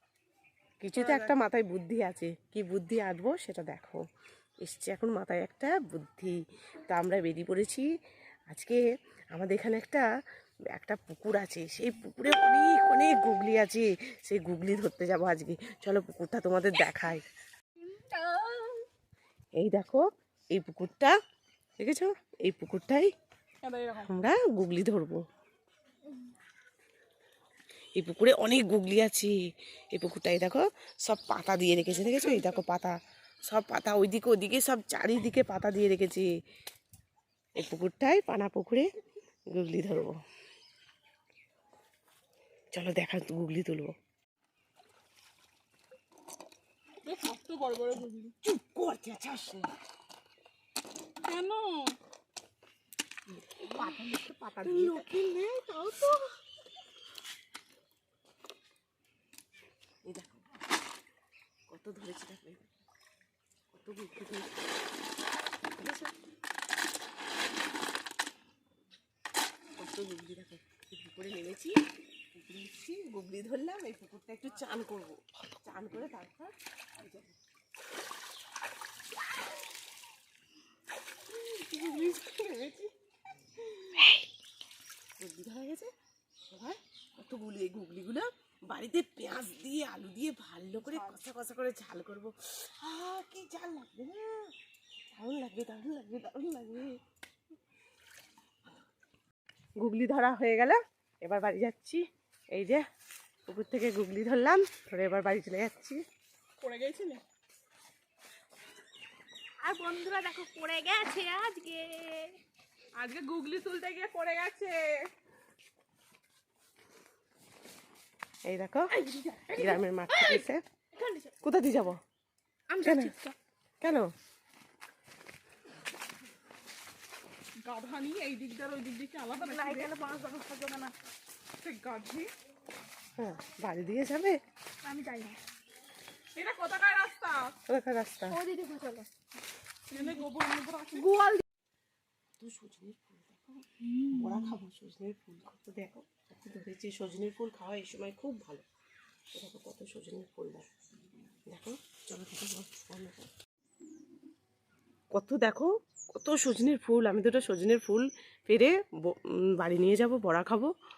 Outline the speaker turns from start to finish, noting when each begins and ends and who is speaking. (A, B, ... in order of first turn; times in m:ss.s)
0:00.8-0:04.0 A
0:01.0-0:01.3 B
0:04.6-0:06.4 A
0:06.9-0:07.8 A
0:08.5-0:08.8 A
0:09.4-0:10.0 A
0:10.7-0:17.2 A
0:17.9-0:18.8 C
0:19.6-0:21.1 A
0:21.8-0:23.1 A
0:23.6-0:24.1 B
0:24.0-0:25.2 A
0:28.0-0:29.3 A
0:29.9-0:33.0 A
0:31.9-0:32.6 B
0:33.5-0:36.3 A
0:37.6-0:38.9 A
0:39.5-0:40.2 A
0:42.7-0:43.9 A
0:47.0-0:48.4 B
0:48.4-0:49.7 A
0:51.2-0:52.0 B
0:53.3-0:55.1 A
0:54.6-0:56.2 B
1:00.1-1:00.4 A
1:01.7-1:02.7 A
1:03.7-1:04.5 A
1:05.8-1:06.1 A
1:09.8-1:11.7 A
1:12.4-1:17.4 A
1:21.3-1:22.9 A
1:25.2-1:25.9 A
1:26.5-1:34.5 A
1:30.9-1:31.2 B
1:35.1-1:37.0 A
1:39.8-1:42.0 A
1:42.5-1:42.8 A
1:43.5-1:46.0 A
1:46.6-1:47.2 B
1:49.6-1:52.4 C
1:53.0-1:55.1 B
1:58.5-1:58.9 A
1:58.9-2:00.4 B
1:59.5-2:00.6 A
2:01.0-2:01.3 C
2:01.4-2:02.0 A
2:02.7-2:03.4 C
2:02.8-2:03.1 A
2:03.8-2:04.1 A
2:07.6-2:09.9 B
2:09.4-2:11.0 C
2:11.5-2:12.3 B
2:13.2-2:14.4 A
2:14.8-2:15.4 C
2:16.4-2:17.6 B
2:17.7-2:18.4 A
2:18.3-2:19.1 C
2:19.9-2:21.2 B
2:20.9-2:21.4 C
2:22.4-2:28.6 A
2:29.3-2:30.6 A
2:31.5-2:33.3 A
2:35.1-2:40.7 A